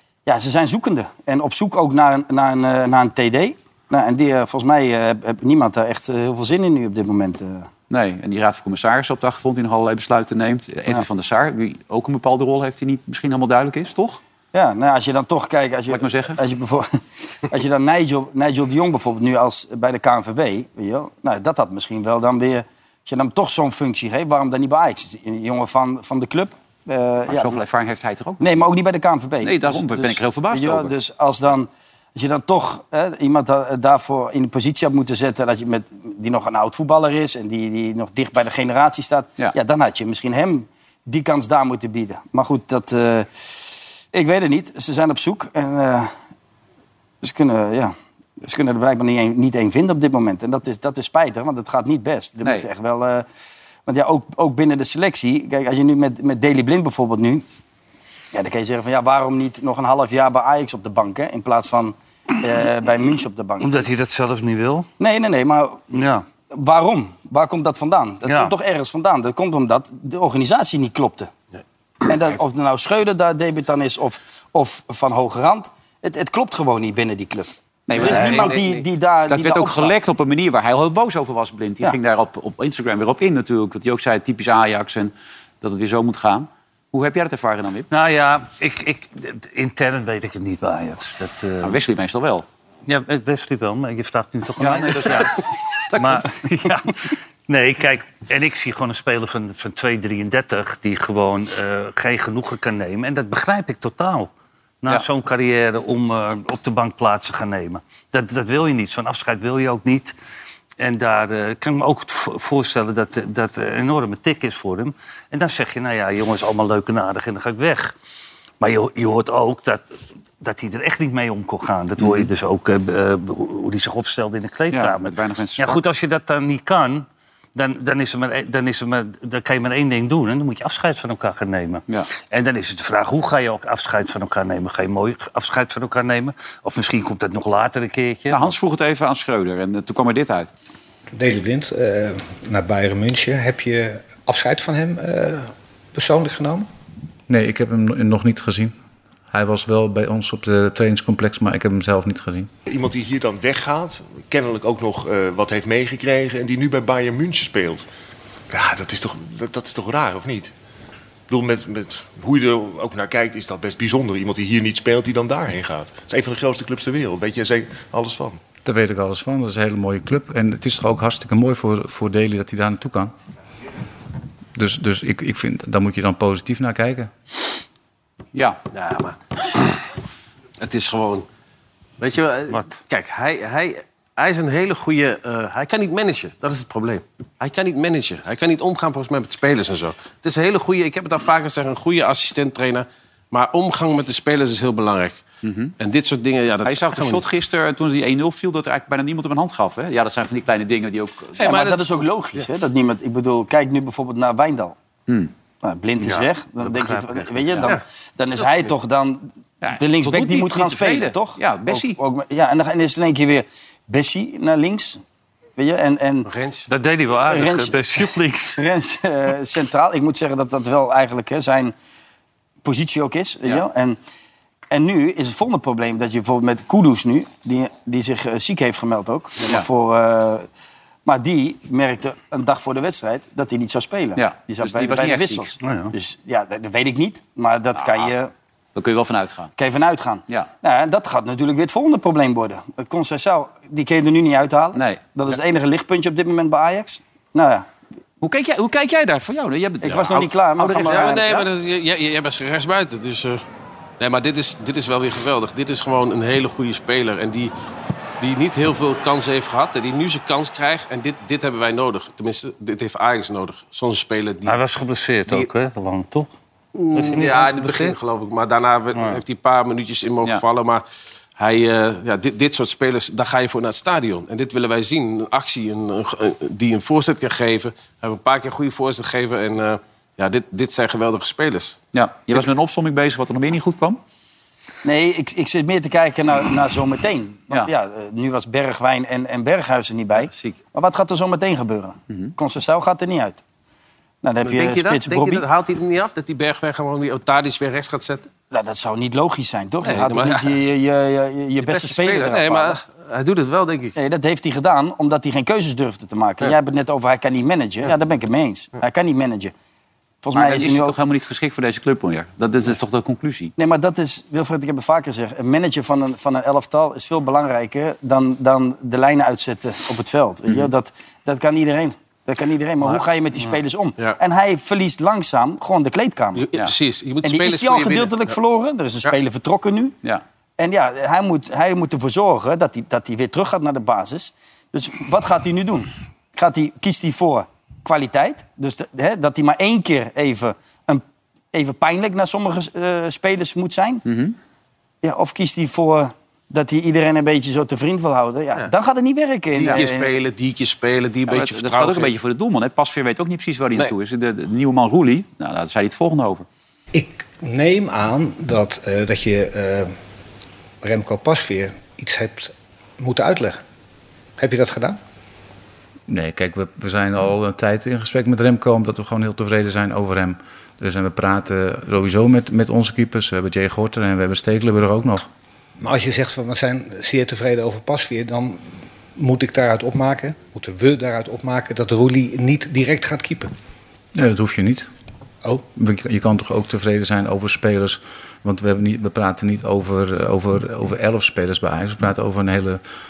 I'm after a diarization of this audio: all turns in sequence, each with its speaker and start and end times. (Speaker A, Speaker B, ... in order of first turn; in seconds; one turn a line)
Speaker A: 0.2-7.7
Speaker B: 7.9-14.2
Speaker A: 14.5-27.6
Speaker B: 15.9-16.4
Speaker B: 27.3-28.6
Speaker A: 28.4-46.1
Speaker B: 29.4-30.9
Speaker A: 47.2-53.2
Speaker A: 53.9-57.4
Speaker A: 58.3-63.7
Speaker C: 63.6-64.9
Speaker A: 65.0-65.8
Speaker C: 65.9-66.2
Speaker A: 66.5-71.3
Speaker C: 68.2-68.5
Speaker A: 72.0-79.9
Speaker B: 77.9-78.6
Speaker D: 78.0-78.8
Speaker B: 79.3-87.9
Speaker C: 87.9-91.8
Speaker B: 91.6-92.5
Speaker C: 92.8-95.4
Speaker B: 94.6-95.4
Speaker B: 95.9-96.3
Speaker C: 95.9-104.3
Speaker C: 104.8-110.1
Speaker C: 110.8-117.9
Speaker C: 118.6-119.8
Speaker C: 120.4-138.5
Speaker B: 122.0-122.3
Speaker B: 124.7-125.8
Speaker B: 138.3-140.5
Speaker E: 141.1-146.7
Speaker F: 147.3-148.7
Speaker F: 149.3-152.5
Speaker G: 152.7-157.9
Speaker G: 158.5-160.5
Speaker G: 161.3-168.4
Speaker F: 168.6-173.1
Speaker F: 174.5-177.1
Speaker D: 178.7-179.2
Speaker D: 180.6-181.2
Speaker D: 182.0-195.2
Speaker C: 182.5-182.8
Speaker B: 195.4-195.7
Speaker D: 195.8-197.2
Speaker B: 196.6-201.5
Speaker D: 201.3-202.4
Speaker A: 201.4-204.8
Speaker A: 205.6-215.0
Speaker C: 206.0-207.7
Speaker D: 208.4-208.7
Speaker B: 209.6-212.0
Speaker A: 215.6-216.3
Speaker D: 216.2-216.7
Speaker C: 216.7-218.6
Speaker A: 217.3-217.8
Speaker A: 218.6-221.7
Speaker A: 222.6-224.0
Speaker A: 224.7-230.5
Speaker A: 231.0-238.3
Speaker B: 234.2-235.5
Speaker C: 235.6-235.9
Speaker B: 237.8-238.1
Speaker B: 238.7-239.5
Speaker A: 239.6-247.7
Speaker B: 244.7-245.1
Speaker B: 248.2-251.5
Speaker A: 249.8-251.4
Speaker D: 250.8-253.4
Speaker D: 254.0-257.5
Speaker D: 258.2-264.6
Speaker C: 264.4-266.3
Speaker D: 266.7-270.8
Speaker C: 266.9-268.0
Speaker C: 268.9-269.2
Speaker D: 271.4-281.8
Speaker B: 281.9-284.0
Speaker A: 284.8-293.4
Speaker D: 290.2-290.5
Speaker A: 294.2-295.4
Speaker D: 294.4-298.3
Speaker A: 298.5-302.8
Speaker D: 299.8-300.6
Speaker D: 301.6-303.9
Speaker A: 303.9-309.5
Speaker A: 310.2-310.9
Speaker B: 310.3-313.5
Speaker A: 313.6-326.5
Speaker D: 326.4-328.4
Speaker A: 327.2-329.9
Speaker A: 330.6-344.0
Speaker B: 344.1-344.3
Speaker A: 345.0-350.1
Speaker D: 349.5-352.1
Speaker B: 351.3-356.4
Speaker E: 356.9-359.9
Speaker E: 360.8-363.6
Speaker E: 364.4-365.0
Speaker F: 366.1-375.3
Speaker E: 375.8-383.5
Speaker F: 384.1-384.9
Speaker F: 385.8-392.8